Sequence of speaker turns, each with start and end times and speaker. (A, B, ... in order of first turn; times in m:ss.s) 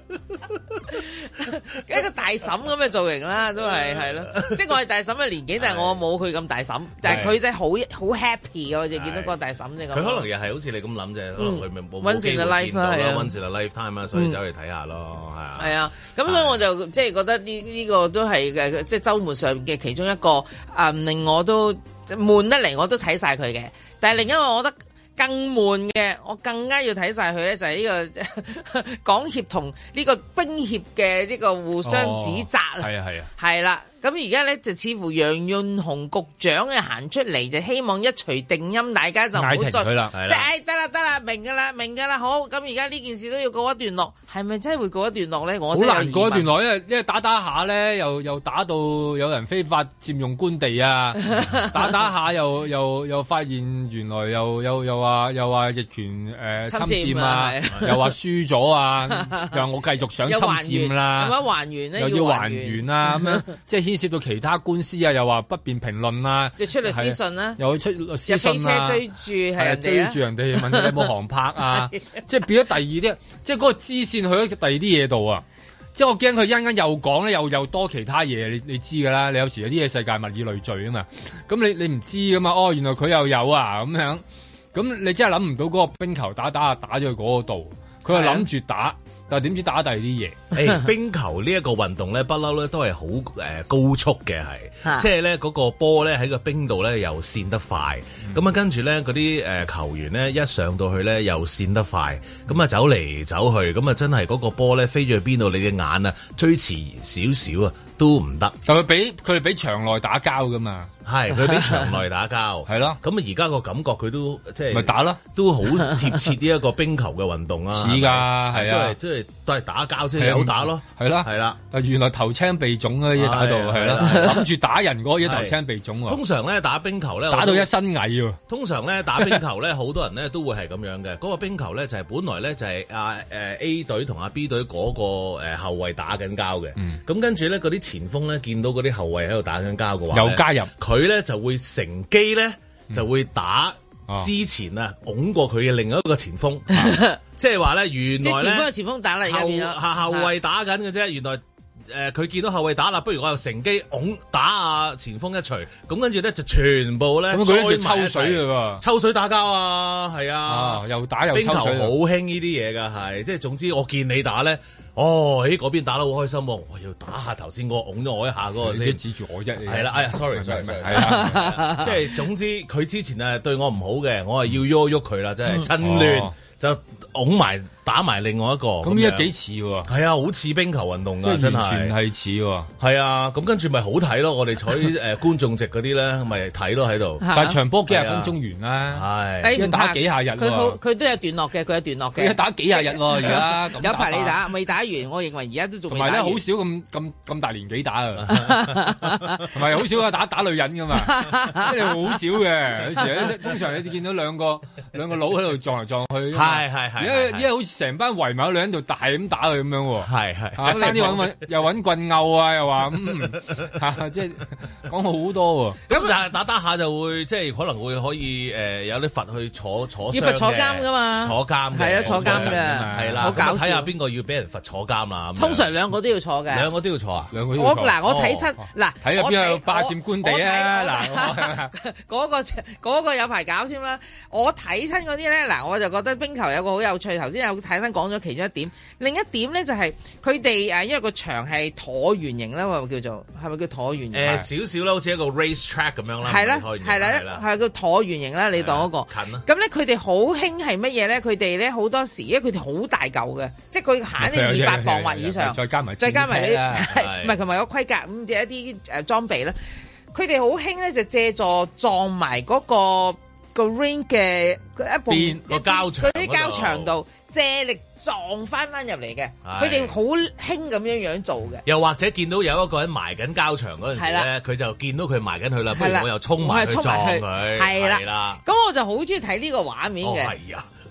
0:01.4-0:10.3 A
0:03.9-0:04.5 B
0:05.6-0:06.0 B
0:07.0-0:07.4 B
0:08.9-0:09.4 B
0:09.9-0:15.8 B
0:11.4-0:13.3 A
0:15.6-0:46.5 A
0:16.3-0:16.6 B
0:31.8-0:33.3 C
0:39.4-0:40.1 C
0:40.1-0:40.5 B
0:45.7-1:01.4 C
0:51.3-0:51.9 A
0:56.7-0:58.1 A
0:59.2-0:59.5 A
1:00.2-1:03.4 A
1:02.0-1:09.0 C
1:06.6-1:07.6 A
1:08.3-1:11.0 A
1:09.6-1:15.4 C
1:16.0-1:24.2 C
1:24.7-1:30.4 C
1:28.1-1:28.5 A
1:30.5-1:48.6 B
1:48.6-1:50.9 C
1:51.0-2:01.6 B
1:52.7-1:53.0 C
1:54.7-1:55.2 C
1:57.7-1:59.0 C
2:00.2-2:06.2 C
2:03.1-2:04.4 B
2:05.2-2:07.7 B
2:07.3-2:08.4 C
2:08.5-2:28.7 B
2:20.1-2:20.7 C
2:26.8-2:27.2 A
2:28.2-2:30.3 A
2:29.2-2:49.0 B
2:37.3-2:38.8 C
2:40.5-2:41.9 C
2:48.6-2:51.8 C
2:49.6-2:59.3 B
2:51.0-2:51.9 A
2:55.7-2:56.4 C
2:58.8-2:59.9 C
2:59.9-3:02.0 B
3:01.2-3:02.7 C
3:02.8-3:07.2 B
3:07.2-3:07.6 A
3:07.3-3:09.0 C
3:07.9-3:08.4 B
3:08.9-3:09.6 B
3:09.4-3:16.4 A
3:09.6-3:10.8 C
3:12.2-3:14.4 C
3:15.9-3:18.6 C
3:18.2-3:19.1 B
3:18.3-3:19.4 A
3:19.4-3:35.8 C
3:21.0-3:21.9 A
3:26.3-3:27.5 B
3:30.0-3:31.4 B
3:30.7-3:31.2 A
3:35.9-3:45.7 B
3:40.1-3:43.9 A
3:42.0-3:43.5 C
3:45.4-3:46.7 A
3:46.5-3:47.3 B
3:47.3-3:48.1 C
3:47.6-4:04.4 A
3:48.0-3:48.5 B
3:49.0-3:51.7 C
4:04.1-4:07.4 B
4:06.2-4:19.6 A
4:08.5-4:09.4 B
4:14.2-4:16.9 C
4:16.9-4:17.4 B
4:20.1-4:31.6 A
4:25.1-4:25.4 C
4:25.5-4:27.0 B
4:29.4-4:30.0 B
4:31.6-4:38.4 B
4:34.0-4:34.3 A
4:35.7-4:40.3 A
4:40.0-4:40.7 B